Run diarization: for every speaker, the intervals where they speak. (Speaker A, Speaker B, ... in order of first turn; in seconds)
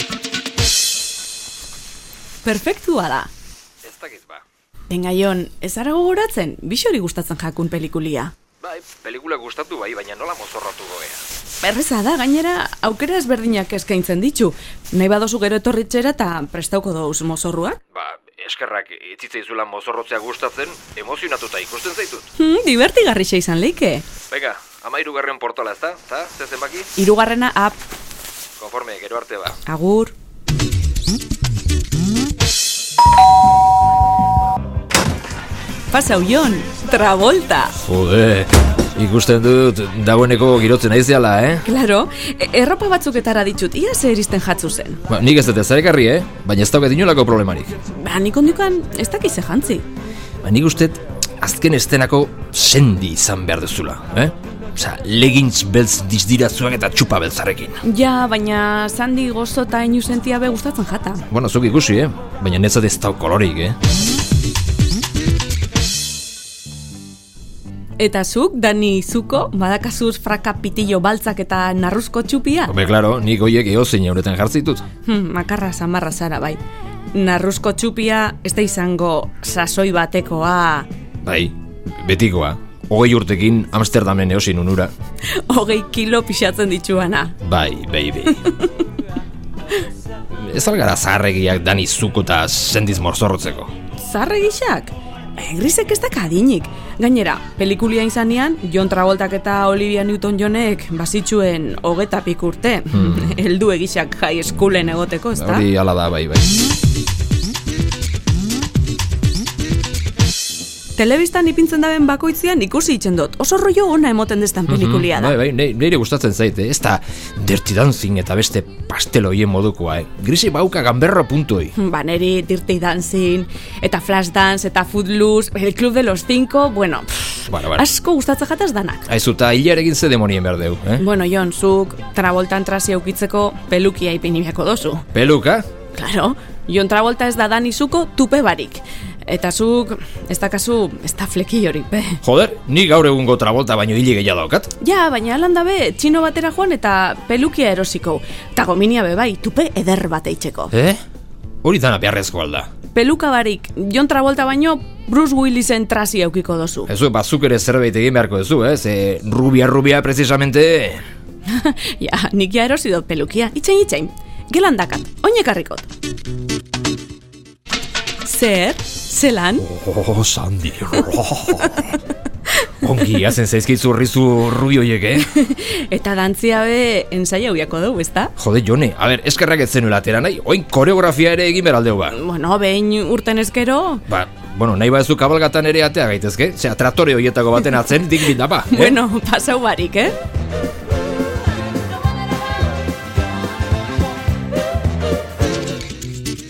Speaker A: 2.4-3.3, 4.9-8.3, 11.6-17.8, 22.4-24.1, 27.0-27.8, 29.7-30.1, 35.9-37.8, 41.6-45.0, 47.9-49.9, 57.8-61.3, 68.0-72.7, 75.1-76.6, 77.1-80.9, 85.3-87.4, 94.0-105.7, 111.0-115.4, 121.8-129.1, 131.0-135.1, 135.9-142.2, 144.8-150.7, 152.9-156.9, 161.5-165.9, 168.2-169.7, 171.6-172.0, 175.2-178.3, 182.1-184.0, 188.7-190.2
Speaker B: 3.8-4.4, 8.6-11.2, 17.9-22.3, 24.3-26.9, 28.6-29.6, 37.8-41.7, 45.1-47.7, 50.4-57.8, 61.3-63.8, 72.7-74.8, 81.2-84.9, 87.4-88.5, 90.4-93.7, 102.9-103.4, 105.4-106.5, 114.7-121.7, 127.5-127.8, 129.1-131.1, 135.1-135.7, 142.2-144.7, 150.7-151.0, 151.6-152.7, 156.9-161.0, 169.6-171.9, 172.8-175.3, 178.4-182.2, 184.1-189.0